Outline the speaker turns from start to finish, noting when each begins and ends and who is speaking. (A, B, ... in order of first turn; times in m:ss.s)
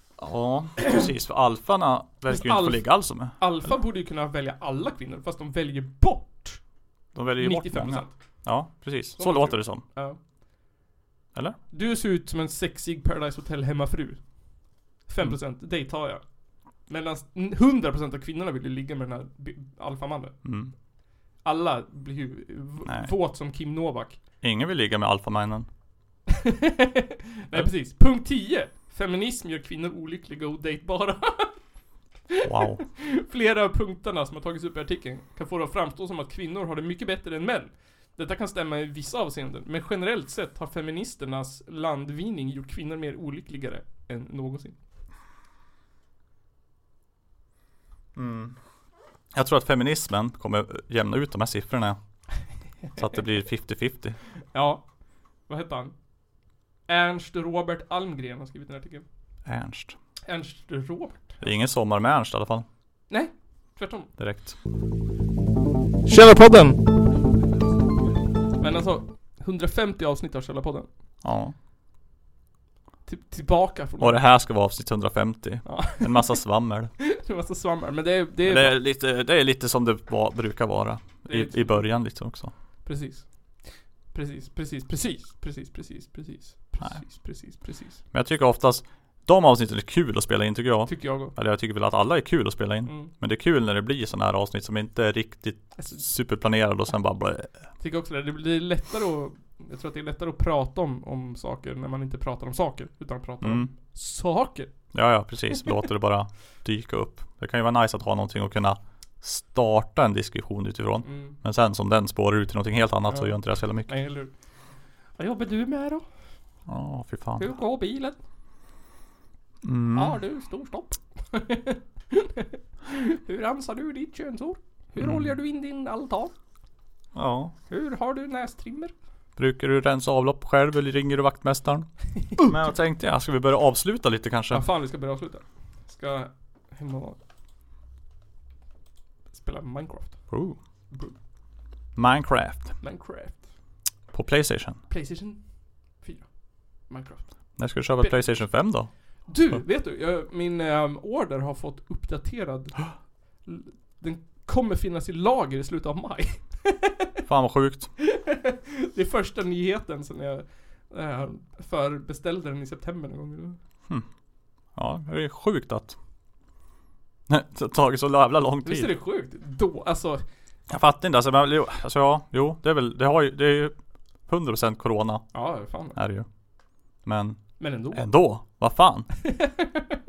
0:00.2-0:03.7 A
0:02.3-0:10.2 B
0:07.1-0:09.8 A
0:11.3-0:11.6 A
0:11.7-0:20.8 B
0:20.4-0:20.8 A
0:21.4-0:24.2 B
0:22.8-0:23.1 A
0:24.4-0:25.7 A
0:27.4-0:31.7 B
0:32.3-0:44.8 B
0:32.4-0:32.8 A
0:48.2-0:48.8 A
0:49.3-0:54.2 A
0:54.5-0:59.1 B
0:59.4-1:00.0 A
1:00.2-1:01.4 B
1:01.4-1:02.7 A
1:03.1-1:04.1 B
1:04.2-1:04.6 A
1:06.1-1:06.8 B
1:08.6-1:10.9 B
1:11.2-1:11.6 A
1:13.1-1:14.2 B
1:14.0-1:17.0 A
1:15.6-1:16.5 B
1:17.0-1:18.8 B
1:18.5-1:22.5 A
1:21.2-1:22.3 B
1:22.8-1:28.0 B
1:26.8-1:27.1 A
1:28.1-1:37.7 A
1:30.9-1:31.3 B
1:32.9-1:33.1 B
1:35.8-1:36.1 B
1:37.8-1:44.9 B
1:43.4-1:43.7 A
1:44.9-1:53.9 A
1:51.0-1:51.4 B
1:53.1-1:56.1 B
1:56.7-1:57.5 A
1:57.4-1:58.2 B
1:59.6-2:00.2 A
2:00.0-2:06.3 B
2:05.0-2:05.3 A
2:07.1-2:07.5 A
2:07.7-2:08.9 B
2:09.4-2:14.7 A
2:14.5-2:17.2 B
2:19.3-2:21.2 B
2:20.3-2:20.6 A
2:22.0-2:22.8 A
2:22.8-2:23.5 B
2:24.1-2:24.8 A
2:24.9-2:36.9 B
2:27.6-2:29.6 A
2:37.3-2:37.9 A
2:38.4-2:43.6 B
2:44.7-2:46.0 A
2:47.3-2:48.9 A
2:48.6-2:50.2 B
2:50.7-2:59.3 A
2:55.3-2:56.0 B
2:57.6-2:58.6 B